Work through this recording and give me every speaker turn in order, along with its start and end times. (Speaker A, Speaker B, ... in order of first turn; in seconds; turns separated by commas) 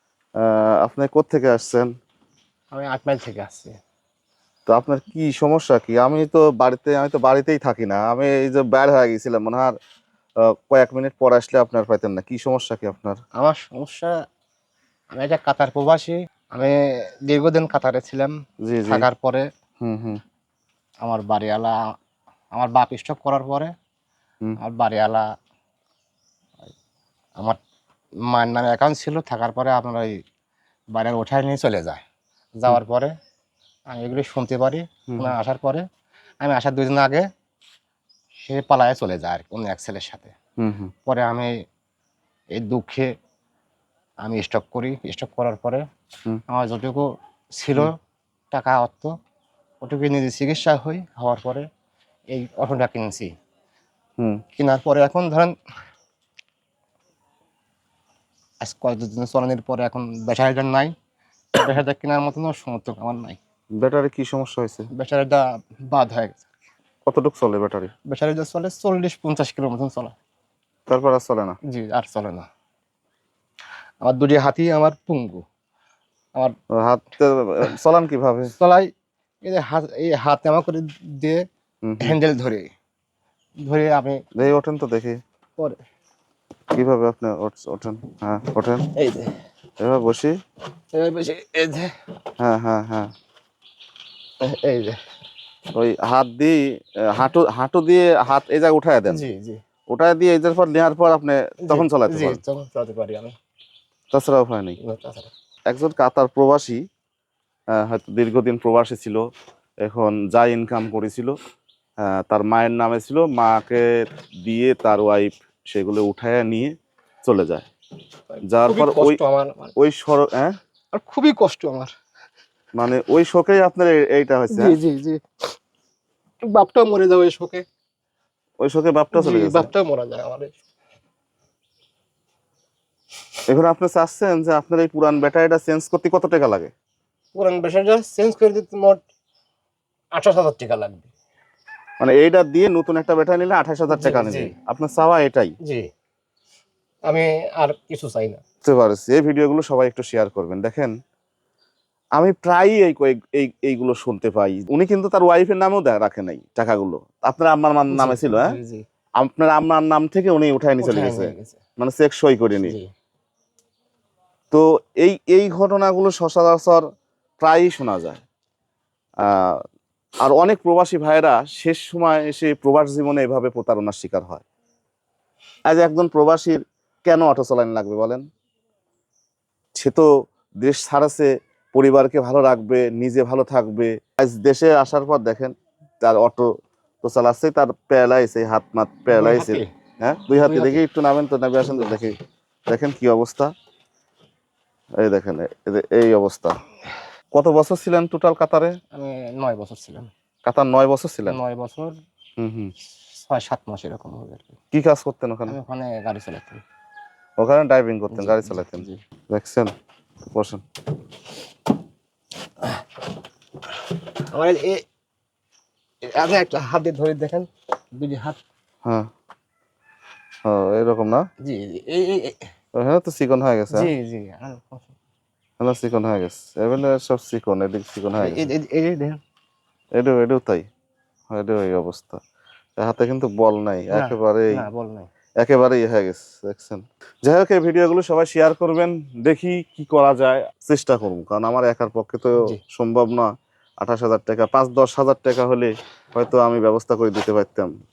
Speaker A: 0.4-1.9, Speaker B: 2.7-3.8, Speaker A: 4.7-9.8, Speaker A: 10.4-13.2, Speaker B: 13.4-14.2, Speaker B: 15.1-18.4, Speaker A: 18.6-19.1, Speaker B: 18.9-19.5, Speaker A: 19.8-20.2, Speaker B: 21.0-21.8, Speaker B: 22.5-23.7, Speaker B: 24.6-25.3, Speaker B: 28.3-30.2, Speaker B: 30.9-32.0, Speaker B: 32.6-33.1, Speaker B: 33.9-35.9, Speaker B: 36.4-37.3, Speaker B: 38.4-40.3, Speaker A: 40.6-40.9, Speaker B: 41.1-41.5, Speaker B: 42.5-43.1, Speaker B: 44.2-45.8, Speaker B: 46.5-47.0, Speaker B: 47.6-48.0, Speaker B: 48.5-49.1, Speaker B: 49.8-51.7, Speaker B: 52.3-53.3, Speaker B: 54.6-55.6, Speaker B: 58.6-60.9, Speaker B: 61.5-63.4, Speaker A: 63.8-64.9, Speaker B: 65.0-66.5, Speaker A: 67.1-67.9, Speaker B: 68.1-70.2, Speaker A: 70.9-71.6, Speaker B: 71.7-72.5, Speaker B: 74.0-75.4, Speaker A: 76.7-78.5, Speaker B: 78.6-78.9, Speaker B: 79.4-81.5, Speaker A: 81.8-82.2, Speaker B: 82.0-82.7, Speaker B: 83.6-84.2, Speaker A: 84.4-85.2, Speaker A: 86.7-88.9, Speaker B: 88.9-89.4, Speaker A: 89.8-90.3, Speaker B: 90.9-91.9, Speaker A: 92.4-93.1, Speaker B: 94.4-95.0, Speaker A: 95.7-99.2, Speaker B: 99.1-99.6, Speaker A: 99.9-102.4, Speaker B: 101.7-103.3, Speaker A: 104.1-104.8, Speaker B: 104.8-105.3, Speaker A: 105.7-106.8, Speaker A: 107.7-109.2, Speaker A: 109.8-111.3, Speaker A: 112.0-113.9, Speaker A: 114.5-116.7, Speaker A: 117.2-117.7, Speaker B: 118.3-119.8, Speaker A: 118.5-119.2, Speaker A: 119.8-120.6, Speaker B: 120.9-121.9, Speaker A: 122.8-124.8, Speaker B: 124.5-125.2, Speaker B: 126.5-127.7, Speaker A: 128.6-129.7, Speaker B: 129.1-130.6, Speaker A: 133.5-136.7, Speaker B: 137.3-139.0, Speaker B: 140.2-141.1, Speaker A: 142.0-145.5, Speaker B: 143.9-144.5, Speaker B: 147.1-148.4, Speaker A: 148.6-150.9, Speaker A: 152.2-158.5, Speaker B: 157.9-158.8, Speaker A: 159.2-162.8, Speaker B: 160.8-161.6, Speaker B: 162.6-162.9, Speaker A: 164.5-166.8, Speaker A: 167.4-168.2, Speaker A: 169.2-169.6, Speaker A: 170.2-174.4, Speaker A: 175.7-178.2, Speaker A: 179.8-180.1, Speaker A: 180.6-186.5, Speaker A: 187.0-192.2, Speaker B: 189.1-189.7, Speaker B: 190.4-190.8, Speaker B: 191.7-192.1, Speaker A: 192.7-193.5, Speaker A: 195.0-196.6, Speaker A: 197.3-198.8, Speaker B: 198.9-200.1, Speaker A: 200.5-201.4, Speaker B: 201.3-202.0, Speaker A: 202.4-202.7, Speaker B: 203.2-204.6, Speaker A: 204.7-205.6, Speaker B: 205.5-206.6, Speaker A: 207.4-209.7, Speaker B: 208.1-209.0, Speaker A: 210.3-210.6, Speaker B: 214.3-214.8, Speaker B: 216.1-218.4, Speaker A: 218.8-219.1, Speaker A: 220.4-221.3, Speaker B: 221.4-222.4, Speaker A: 222.8-223.9, Speaker B: 223.7-224.9, Speaker A: 225.6-228.5, Speaker B: 228.2-229.2, Speaker A: 230.0-230.7, Speaker A: 231.3-232.2, Speaker A: 232.8-234.6, Speaker B: 233.9-235.1, Speaker A: 235.4-243.3, Speaker A: 243.8-247.7